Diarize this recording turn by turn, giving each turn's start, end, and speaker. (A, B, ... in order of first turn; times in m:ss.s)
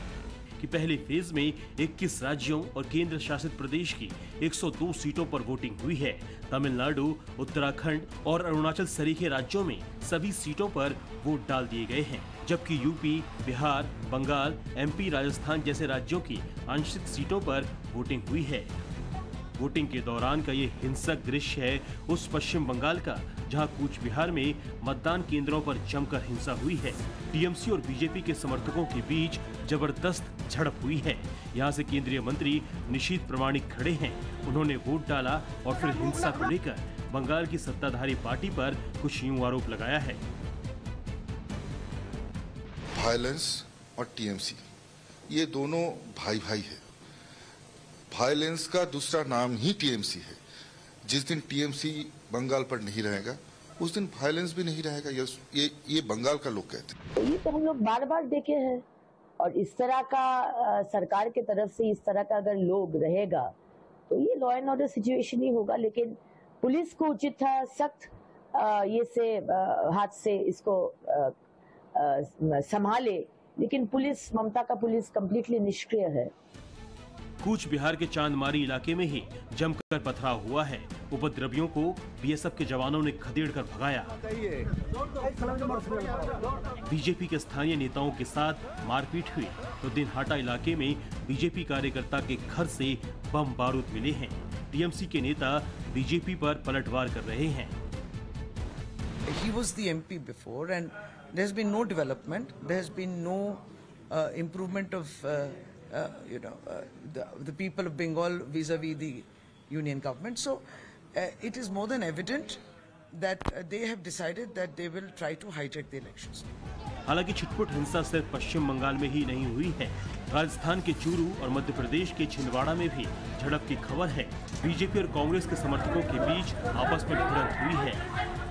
0:00.6-0:18.8 A
0:19.6-0:40.2 A
0:43.0-0:44.6 B
0:45.3-0:46.8 B
0:48.1-0:50.4 B
0:51.1-0:56.9 B
0:57.2-0:58.8 C
0:59.4-1:03.5 C
1:04.1-1:11.3 C
1:12.0-1:16.3 C
1:17.4-1:24.2 A
1:26.8-1:37.8 A
1:39.3-1:52.6 D
1:53.2-1:56.5 D
1:57.1-2:08.0 A